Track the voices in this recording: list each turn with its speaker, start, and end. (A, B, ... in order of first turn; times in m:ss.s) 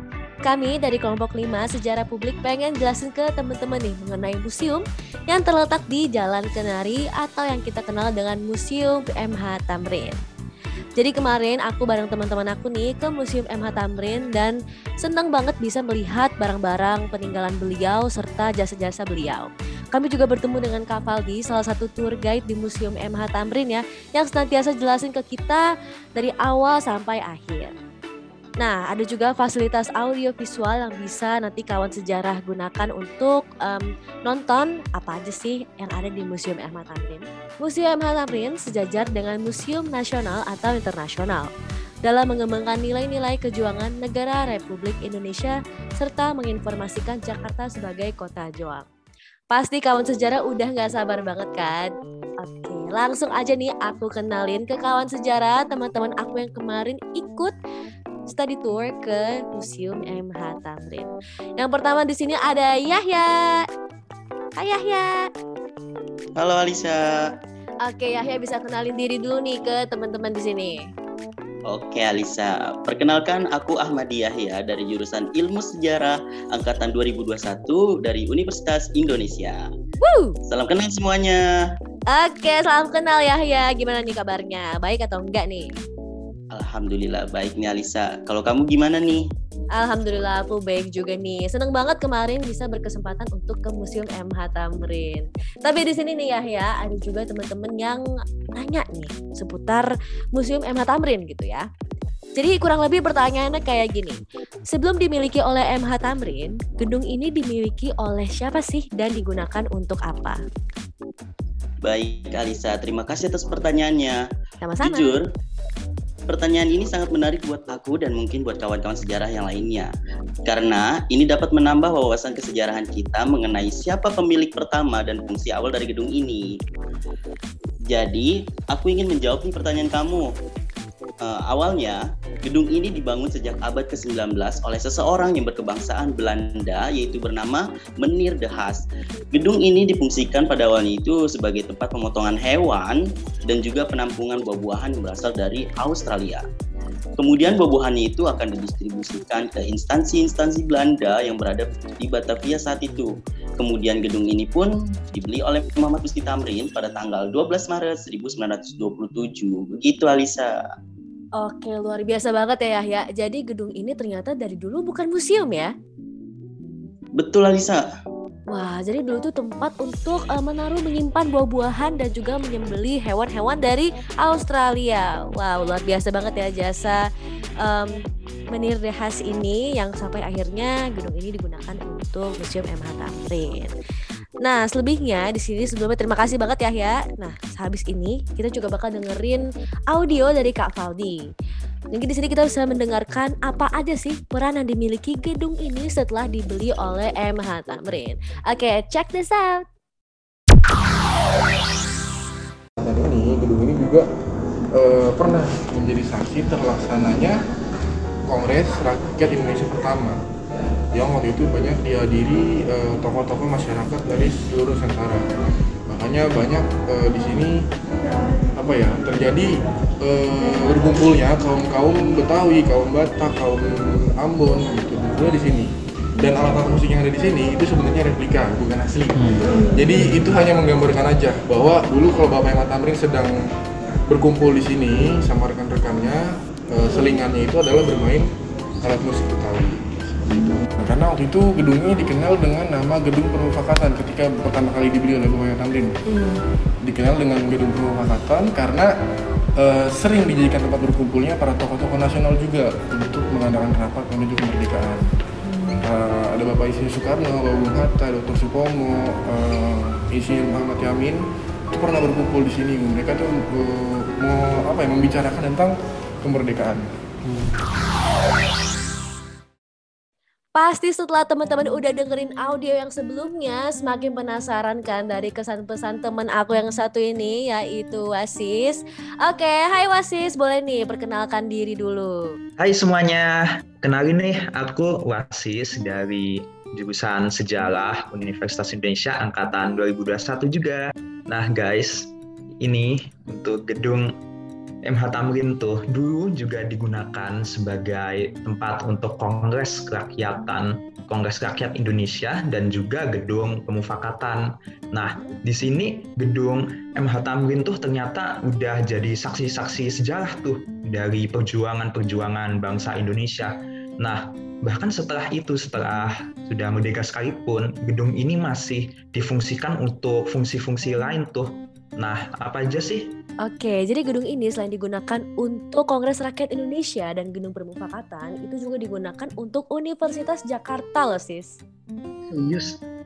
0:00.4-0:10.2 A
0:11.0-0:27.7 A
0:28.6-0:41.5 A
0:42.0-0:48.8 A
0:49.5-0:57.5 A
0:58.3-1:03.6 A
1:04.6-1:05.3 A
1:06.4-1:07.0 B
1:07.8-1:10.8 A
1:11.7-1:19.6 B
1:20.0-1:20.4 A
1:20.5-1:21.4 B
1:22.1-1:25.7 A
1:26.5-1:29.2 B
1:29.7-1:41.6 A
1:42.4-1:50.4 A
1:51.8-1:54.2 B
1:54.6-1:55.1 A
1:54.8-1:55.2 B
1:56.3-1:59.9 B
2:00.4-2:06.5 B
2:07.9-2:10.3 B
2:11.2-2:26.4 B
2:27.2-2:40.5 B
2:41.4-2:45.7 A
2:47.2-2:47.8 B
2:48.5-2:57.0 A
2:57.6-2:58.0 A
2:58.5-3:03.7 A
3:04.4-3:11.2 A
3:11.9-3:19.6 A
3:22.8-3:24.0 C
3:24.7-3:27.4 C
3:28.3-3:30.2 C
3:30.9-3:35.2 C
3:35.9-3:37.6 C
3:38.5-3:39.5 C
3:40.0-3:53.3 C
3:54.1-3:58.2 C
3:58.8-4:05.9 C
4:06.1-4:06.3 A
4:06.8-4:08.9 C
4:09.6-4:15.0 C
4:15.5-4:15.8 A
4:15.8-4:21.2 C
4:21.7-4:26.9 C
4:30.5-4:42.3 A
4:42.6-4:52.1 D
4:52.6-4:54.1 D
4:54.8-5:23.1 D
5:05.0-5:05.3 A
5:23.4-5:31.6 A